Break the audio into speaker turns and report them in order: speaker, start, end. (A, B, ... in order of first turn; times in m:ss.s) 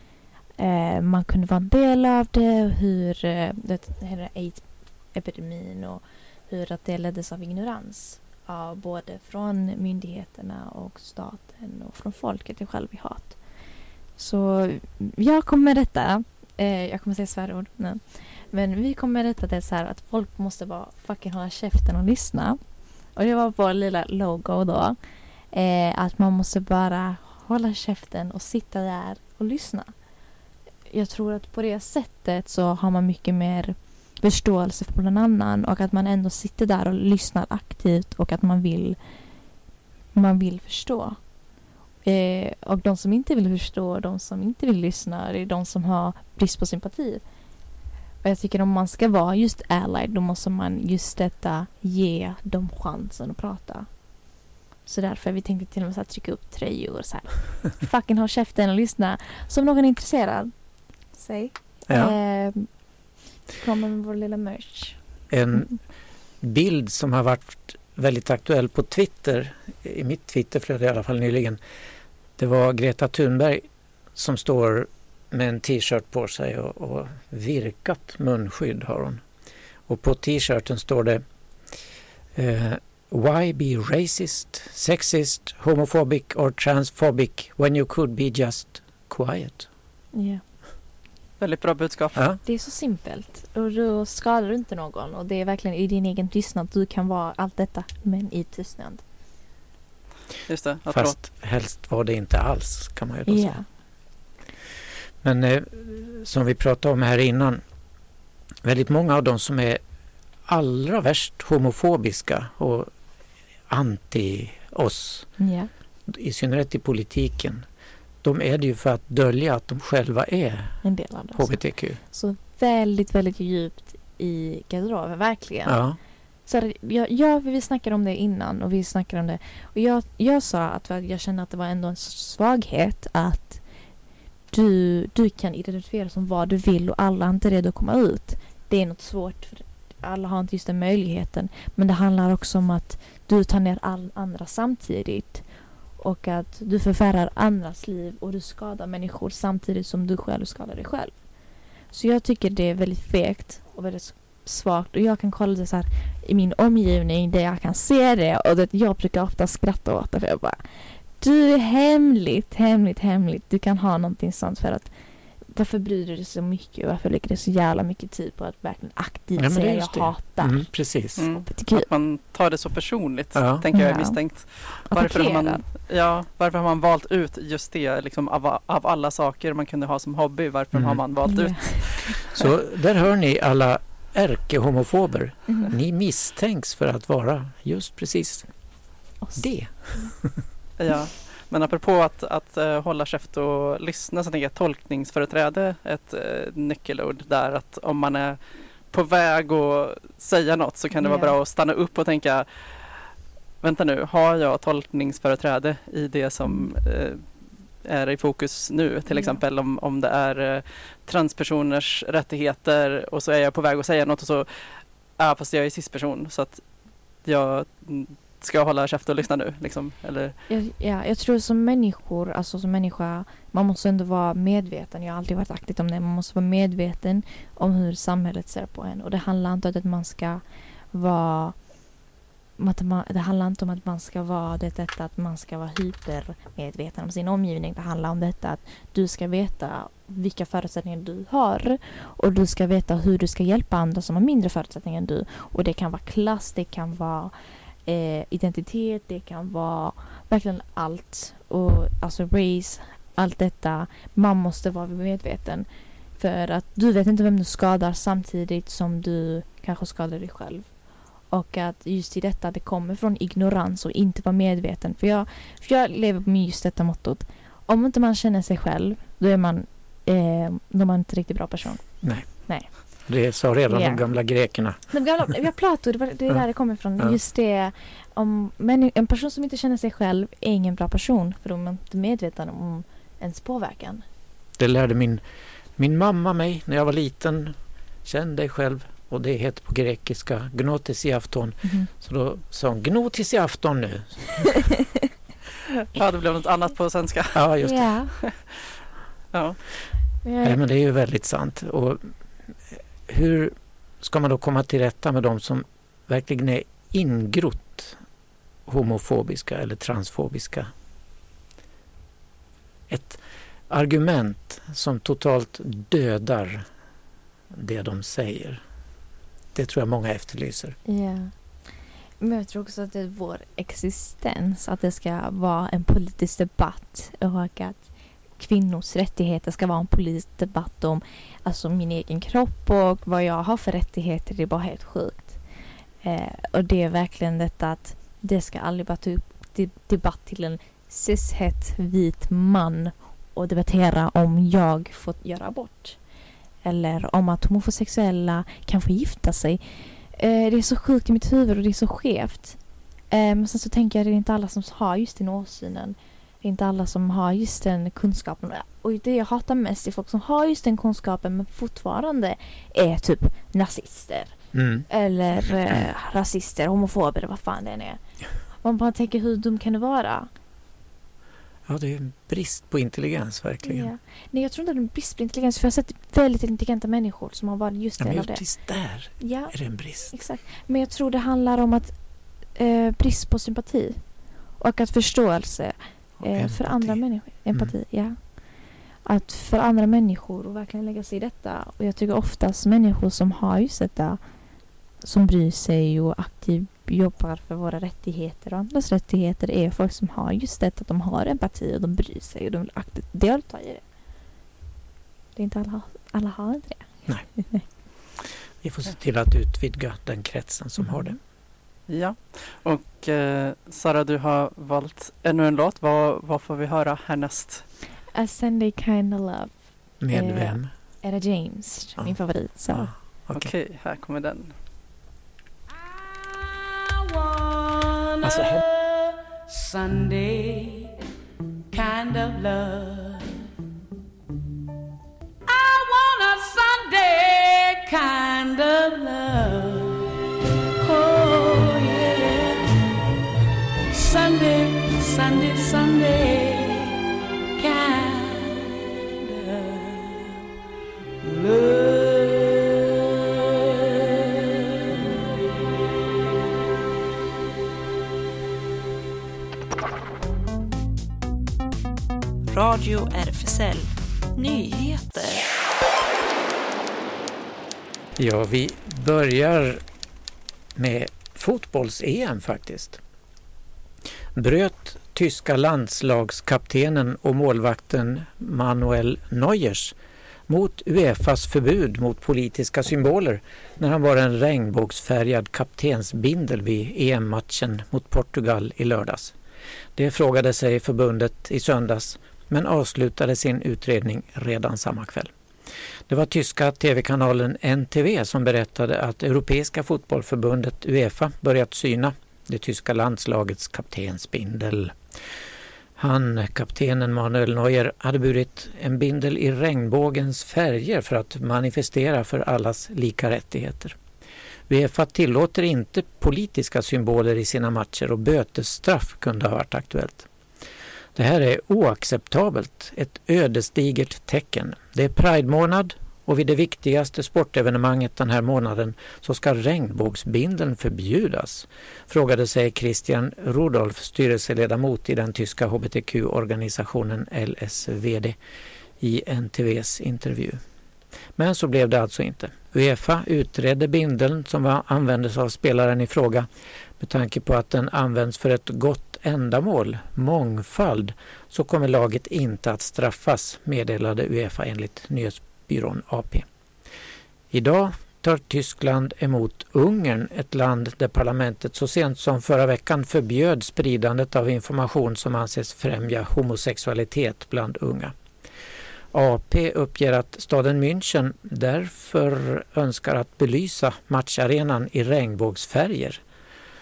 0:00.6-0:13.4 A
0:14.2-0:22.6 A
0:23.1-0:25.0 A
0:25.5-0:29.9 A
0:30.9-0:39.0 A
0:40.1-0:41.2 A
0:42.0-0:47.2 A
0:48.2-0:53.9 A
0:54.8-1:00.5 A
1:01.1-1:02.7 A
1:01.9-1:02.1 B
1:03.5-1:05.0 A
1:05.3-1:05.8 B
1:06.4-1:11.6 B
1:12.4-1:19.2 B
1:19.9-1:21.2 B
1:22.3-1:29.7 B
1:30.1-1:30.4 A
1:31.4-1:32.2 C
1:32.4-1:39.0 A
1:40.5-1:41.2 C
1:40.9-1:43.6 B
1:43.3-1:43.6 A
1:45.2-1:47.6 B
1:48.6-1:49.8 B
1:50.5-1:52.9 B
1:53.7-1:55.3 B
1:55.4-1:55.7 A
1:56.1-1:57.6 B
1:58.2-2:02.0 B
2:00.8-2:05.8 A
2:05.6-2:06.0 B
2:06.5-2:13.6 A
2:14.5-2:25.4 A
2:26.0-2:31.1 A
2:31.9-2:44.9 A
2:45.5-2:50.7 A
2:49.4-2:51.3 B
2:51.2-3:02.4 C
2:51.5-2:51.9 A
2:53.3-2:53.6 B
2:53.7-2:54.2 A
2:54.8-2:55.6 A
3:00.7-3:01.0 B
3:01.2-3:02.2 A
3:02.3-3:08.5 B
3:09.2-3:10.1 A
3:09.4-3:10.4 B
3:10.8-3:18.4 C
3:18.9-3:23.0 C
3:21.0-3:21.3 A
3:23.6-3:27.2 C
3:26.4-3:26.7 A
3:27.8-3:36.6 C
3:29.1-3:29.4 A
3:37.2-3:40.4 C
3:40.5-3:51.6 A
3:52.6-4:07.3 A
4:07.8-4:20.7 A
4:21.3-4:32.7 A
4:32.0-4:34.8 B
4:33.7-4:34.0 A
4:34.9-4:44.0 A
4:44.6-4:45.2 B
4:45.8-4:54.6 B
4:51.6-4:51.9 A
4:55.9-4:57.5 C
4:57.3-4:57.9 B
4:57.6-4:58.1 A
4:58.2-4:58.7 C
4:59.3-4:59.6 C
5:00.2-5:00.6 A
5:00.4-5:02.1 B
5:02.7-5:08.0 B
5:08.7-5:10.7 B
5:12.9-5:16.6 B
5:17.5-5:18.6 B
5:19.5-5:20.8 B
5:20.8-5:21.3 A
5:22.2-5:35.4 A
5:36.0-5:46.0 A
5:46.6-5:49.6 A
5:50.1-5:52.6 A
5:53.1-6:04.4 A
6:04.5-6:04.8 B
6:04.9-6:08.0 A
6:08.6-6:10.3 A
6:11.7-6:13.9 B
6:13.6-6:18.4 A
6:18.0-6:20.1 B
6:19.2-6:28.4 A
6:26.2-6:27.0 B
6:29.0-6:34.2 A
6:35.0-6:43.8 A
6:45.4-6:47.6 A
6:48.6-6:51.1 B
6:50.8-6:51.2 A
6:51.9-6:57.6 C
6:58.1-6:59.6 A
7:00.0-7:00.7 B
7:00.1-7:02.9 A
7:02.7-7:03.5 B
7:03.3-7:04.5 C
7:05.8-7:10.9 D
7:08.2-7:08.6 B
7:11.7-7:13.3 D
7:15.5-7:20.0 D
7:20.8-7:22.7 D
7:23.9-7:27.0 D
7:27.6-7:30.4 D
7:31.2-7:34.0 D
7:42.5-7:45.5 E
7:48.2-7:49.8 B
7:50.8-7:53.0 B
7:54.4-8:00.0 B
8:00.5-8:09.3 B
8:10.0-8:15.3 B
8:16.1-8:25.0 B
8:26.0-8:34.0 B
8:34.7-8:40.3 B
8:41.1-8:58.4 B
8:59.0-9:00.6 B
9:01.4-9:06.4 B
9:07.0-9:16.4 B
9:17.5-9:28.1 B
9:29.1-9:36.2 B